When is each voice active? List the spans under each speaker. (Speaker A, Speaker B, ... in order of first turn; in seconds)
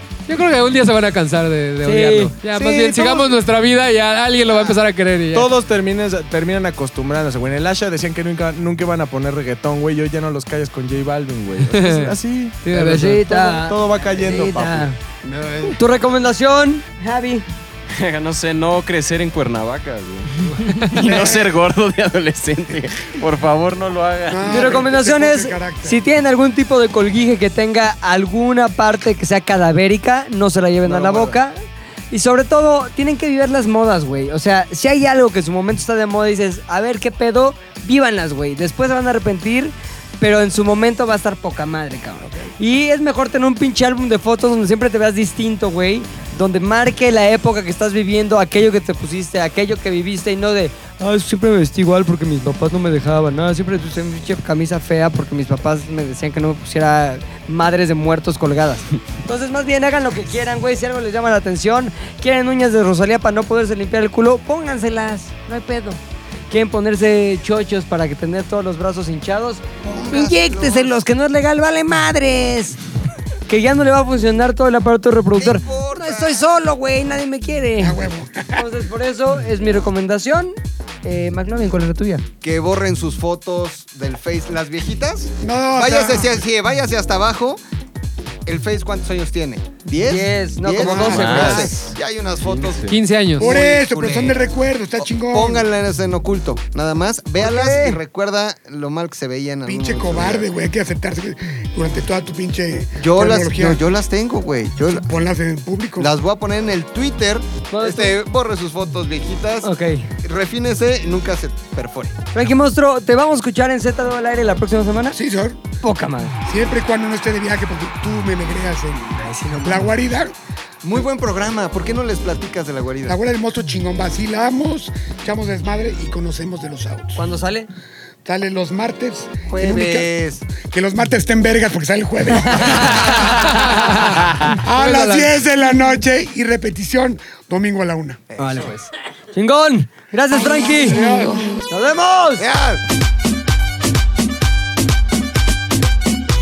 Speaker A: 0.3-5.5, 11.7-13.2, 92.9-93.5, 133.3-134.2, 134.8-135.3
Speaker B: 1.8-2.3, 12.7-15.0, 15.8-17.5, 20.6-21.3, 24.4-31.6, 32.1-72.8, 73.5-78.0, 78.5-82.2, 90.0-91.7, 97.4-98.0, 107.7-108.2, 109.6-110.1, 112.3-115.2, 115.8-116.4, 119.2-119.9, 127.2-127.7, 138.4-141.0, 141.7-142.5
Speaker C: 2.5-3.3, 5.3-14.9
Speaker D: 15.2-15.8, 69.8-71.0, 75.3-76.5, 82.4-87.6, 88.5-100.5, 103.0-105.1, 106.0-112.3, 120.8-123.2, 129.5-130.5, 138.3-138.7, 142.4-142.8
Speaker E: 17.9-24.9, 30.9-31.4, 91.1-91.7, 92.4-93.0
Speaker F: 24.3-26.0, 42.2-42.5, 77.8-78.6, 85.4-86.3, 90.8-91.8, 93.4-95.7, 99.7-103.8, 104.9-106.1, 115.1-115.6, 116.5-120.3, 123.1-127.2, 128.2-130.1, 130.6-133.6, 134.4-138.2, 140.4-141.4